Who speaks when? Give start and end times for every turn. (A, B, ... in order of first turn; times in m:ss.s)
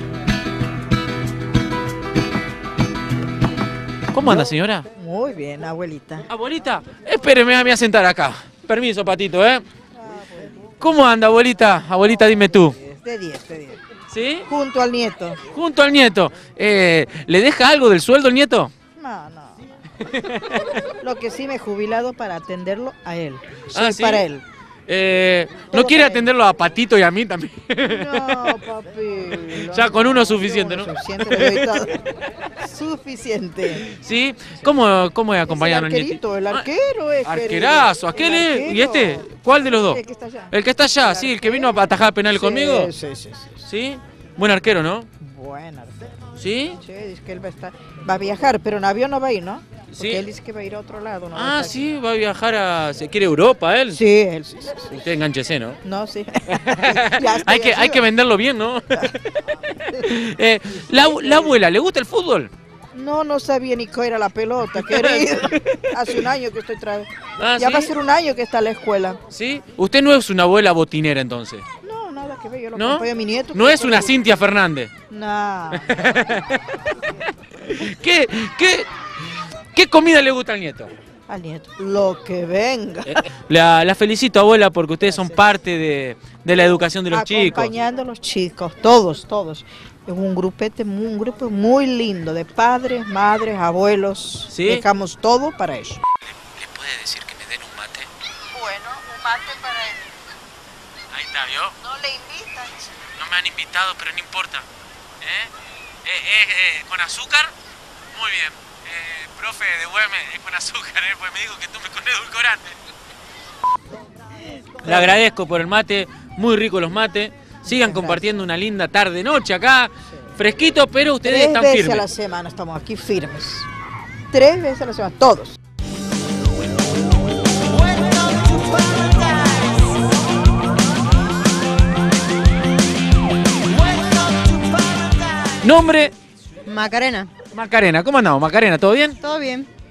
0:04.1-0:04.9 A
0:04.2-0:06.2 B
0:06.3-0:09.6 A
0:10.0-0:10.5 B
0:10.8-0:12.8 A
0:12.8-0:13.8 B
0:14.1-0:14.5 A
0:14.5-0:15.4 B
0:15.5-0:18.7 A
0:19.0-0:19.8 B
0:20.1-0:20.8 A
0:21.0-0:24.4 B
0:23.7-0:24.3 A
0:24.9-0:28.6 A
0:25.7-0:26.3 B
0:27.8-0:31.9 B
0:29.5-0:32.1 A
0:32.6-0:33.9 B
0:33.9-0:36.7 A
0:35.4-0:43.6 B
0:37.2-0:42.9 A
0:43.6-0:45.1 A
0:45.2-0:46.0 B
0:46.4-0:46.8 A
0:46.8-0:51.8 B
0:49.9-0:50.2 A
0:51.3-0:54.0 A
0:53.9-0:55.0 B
0:54.9-0:55.8 A
0:55.8-0:58.1 B
0:56.5-1:02.5 A
1:00.9-1:01.5 B
1:02.9-1:09.2 B
1:04.8-1:06.2 A
1:07.4-1:07.9 A
1:09.3-1:11.6 A
1:11.8-1:14.2 B
1:12.7-1:14.9 A
1:15.1-1:15.9 B
1:15.7-1:18.9 A
1:19.7-1:20.9 A
1:21.3-1:23.2 B
1:23.0-1:27.7 A
1:27.1-1:36.0 B
1:34.5-1:34.8 A
1:36.5-1:38.1 A
1:38.5-1:40.0 B
1:41.1-1:41.7 A
1:41.8-1:42.9 B
1:43.2-1:44.6 A
1:45.2-1:45.5 A
1:46.0-1:47.5 A
1:48.1-1:52.8 A
1:54.8-2:02.1 A
1:54.8-1:55.1 B
1:57.6-1:58.2 B
2:01.2-2:03.7 B
2:04.3-2:05.6 B
2:08.6-2:09.6 C
2:14.2-2:15.5 C
2:15.6-2:16.1 A
2:16.6-2:17.3 C
2:17.5-2:19.2 A
2:19.2-2:19.7 C